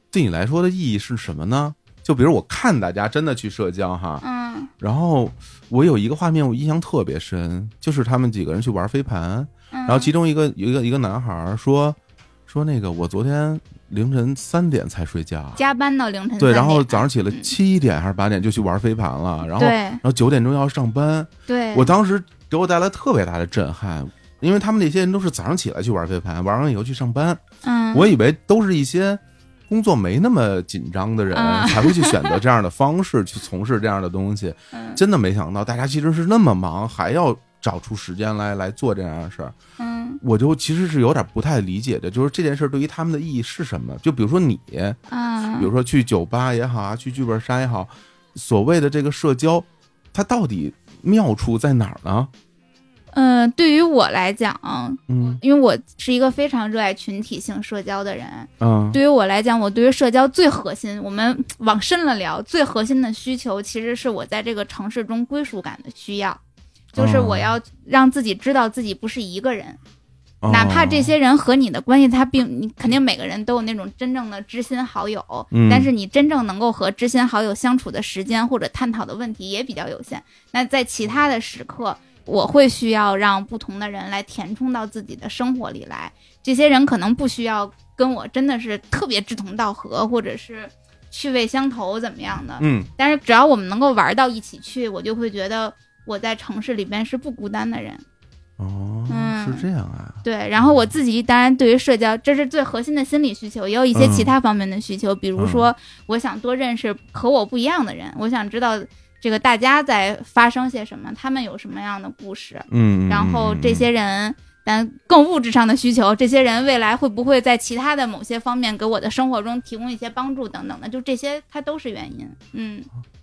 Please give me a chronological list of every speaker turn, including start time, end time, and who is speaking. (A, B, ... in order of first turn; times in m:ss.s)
0:00.1-0:04.2 A
0:04.2-0:04.7 B
0:04.8-0:12.0 A
0:09.7-0:10.1 B
0:12.5-0:15.6 A
0:15.6-0:17.5 B
0:16.4-0:27.4 A
0:19.6-0:20.0 B
0:21.5-0:21.9 B
0:27.6-0:28.1 B
0:27.9-0:39.6 A
0:31.3-0:32.4 B
0:34.7-0:35.0 B
0:39.8-0:40.2 B
0:40.2-0:45.0 A
0:45.1-0:45.7 B
0:45.6-0:52.3 A
0:53.1-1:06.4 B
0:55.1-0:55.4 A
0:58.6-0:59.0 A
1:06.9-1:09.8 B
1:07.0-1:07.5 A
1:10.4-1:11.1 A
1:10.5-1:38.0 B
1:15.5-1:15.9 A
1:32.6-1:32.9 A
1:38.6-1:40.7 A
1:39.1-1:39.7 B
1:40.2-2:02.9 B
1:44.0-1:44.3 A
1:45.4-1:45.7 A
1:52.7-1:53.9 A